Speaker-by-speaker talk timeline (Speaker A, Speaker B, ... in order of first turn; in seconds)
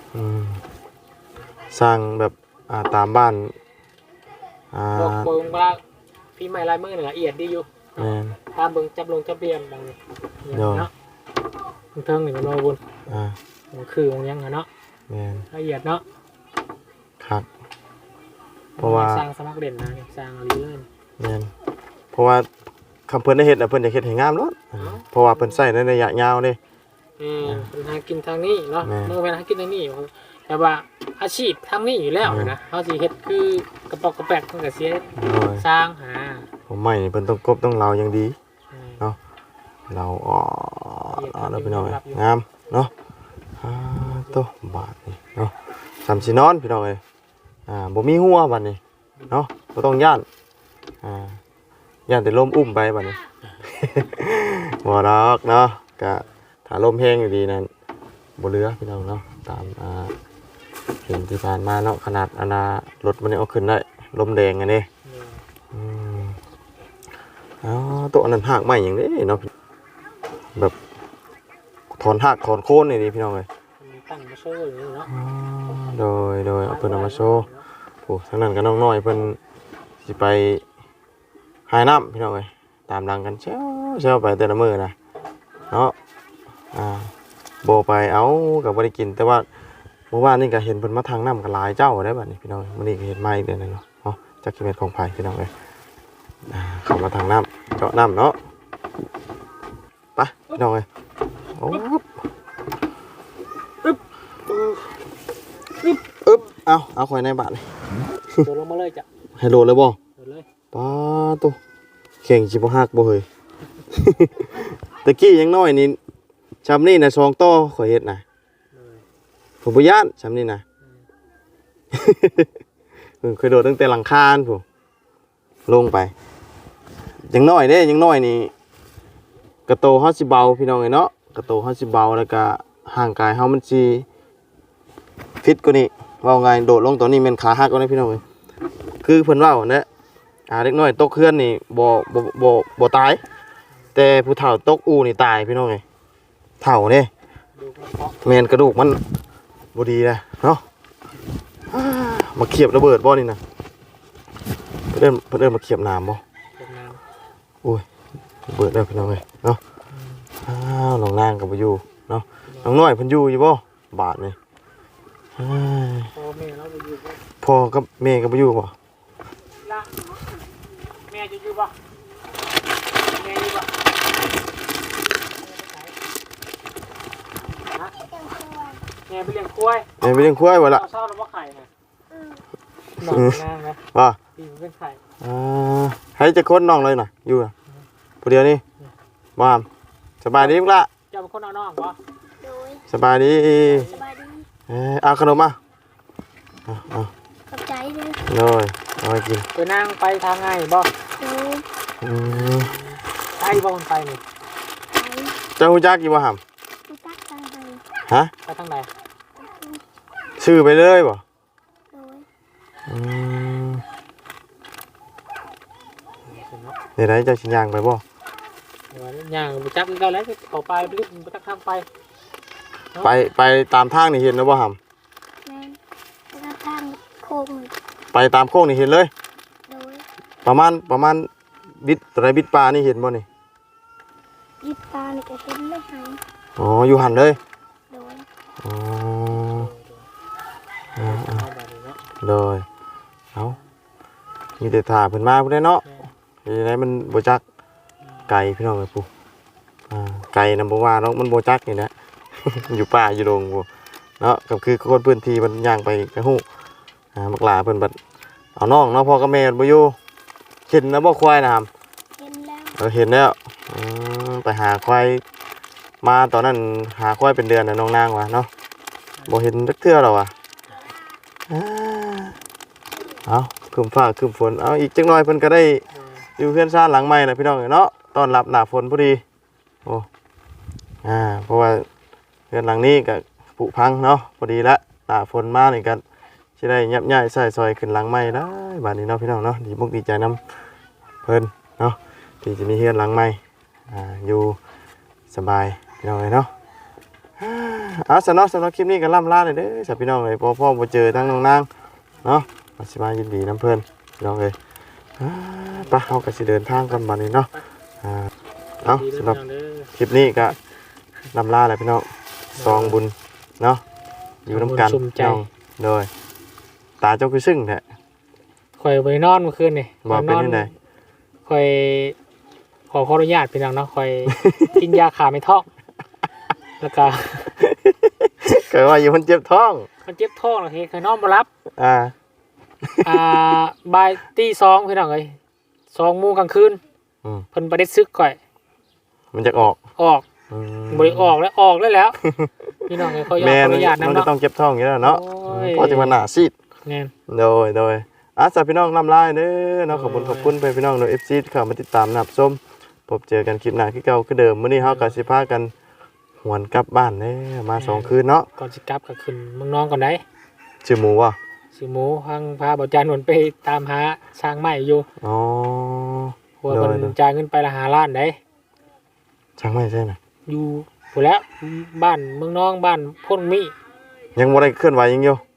Speaker A: 0.1-0.6, 1.7-3.5, 4.7-5.3, 8.0-8.4, 10.5-10.9, 13.1-13.4, 15.1-15.4, 17.2-17.4, 18.8-19.2, 21.2-21.5, 22.1-22.5, 23.1-26.6, 27.4-27.7, 28.8-29.2, 32.2-32.5, 35.2-35.6, 36.7-38.4, 39.9-42.9, 43.6-47.0, 47.7-50.2, 51.0-51.4, 52.1-57.7, 58.4-60.1, 61.0-64.9, 65.7-66.4, 67.6-69.5, 71.9-73.5, 75.1-77.5, 78.0-79.4, 80.0-80.6, 81.7-84.9, 85.7-85.9, 86.7-87.1, 87.6-89.5, 90.1-95.5, 96.5-98.4, 100.2-100.8, 101.5-102.1, 104.5-104.9, 106.2-107.7, 109.4-110.0, 110.7-111.6, 112.2-113.2, 113.9-116.0, 116.6-118.2, 119.6-120.6, 121.9-122.5, 123.2-124.6, 125.7-126.1, 127.3-128.5, 129.7-134.1, 135.4-138.2, 139.0-139.9, 140.5-143.2, 143.9-145.8, 146.6-147.1, 148.2-149.0, 149.7-150.6, 151.7-153.4, 154.9-156.2, 158.5-159.6, 160.4-164.3, 165.4-166.1, 167.4-168.7, 180.0-180.8, 183.0-183.4, 185.2-187.5, 188.2-188.6, 189.4-189.7, 190.2-190.9, 192.9-193.9, 194.7-195.6, 196.7-197.1, 198.2-199.4, 202.0-202.7, 205.6-206.4, 208.1-208.3, 210.4-211.2, 212.9-213.8, 217.0-218.0, 223.0-224.8, 228.1-229.1, 230.4-231.3, 231.8-233.2, 236.6-237.4, 238.6-239.7, 241.0-241.4, 242.2-242.6, 244.6-245.8, 246.4-247.4, 248.3-249.1, 249.9-253.7, 254.2-256.4, 257.1-257.9, 258.6-259.9, 260.7-261.7, 262.8-265.2, 266.0-268.5, 269.3-270.3, 271.5-272.4, 273.2-275.8, 276.4-279.2, 281.0-281.9, 282.5-286.0, 286.6-290.4, 291.2-294.6, 295.3-296.5, 297.4-301.7, 302.2-304.6, 305.2-307.5, 308.0-308.3, 308.8-309.4, 309.9-310.5, 311.3-313.8, 314.4-316.1, 317.0-317.8, 320.0-320.7, 324.3-324.7, 327.6-329.9, 331.8-332.1, 332.8-333.6, 339.3-339.8, 340.5-341.3, 343.0-346.5, 347.3-355.7, 356.4-358.5, 360.8-361.4, 365.2-367.1, 369.6-370.2, 374.4-375.4
Speaker B: 4.9-5.8, 6.3-10.9, 11.9-14.7, 15.5-16.0, 18.8-20.9, 24.8-25.6, 27.2-36.5, 38.7-39.0, 41.1-42.2, 44.0-44.4, 46.1-46.3, 65.0-65.4, 73.8-75.1, 76.6-77.6, 108.4-109.0, 110.2-110.5, 118.7-119.0, 147.6-148.6, 156.6-157.0, 159.9-160.2, 166.1-167.2, 169.6-170.0, 171.1-171.7, 173.1-173.7, 175.4-175.9, 179.1-179.9, 180.7-181.7, 182.9-183.8, 184.3-185.0, 191.1-192.0, 193.5-194.0, 199.5-200.9, 202.2-204.2, 208.4-208.9, 216.3-216.8, 218.9-221.9, 239.3-240.1, 240.9-242.0, 245.8-246.1, 275.9-276.3, 305.8-306.2, 306.7-307.6, 308.8-310.5, 312.6-313.0, 314.5-315.4, 318.8-320.7, 321.4-322.1, 322.9-325.7, 326.8-327.6, 330.0-331.5, 333.0-335.4, 335.9-336.8, 337.5-338.4, 340.0-340.2, 340.9-342.2, 342.9-344.3, 345.0-346.2, 346.9-347.1, 349.9-350.5, 354.8-355.1, 357.8-360.2, 361.7-365.1, 366.6-368.4, 370.5-373.7
Speaker C: 178.1-178.8, 182.1-182.4, 192.4-192.8, 193.9-194.5, 197.5-198.2, 201.2-201.7, 204.9-205.4, 206.9-207.8, 209.4-209.8, 211.9-212.2, 225.4-225.8, 226.3-227.7, 229.7-230.0, 234.6-236.2, 237.9-238.3, 262.2-262.8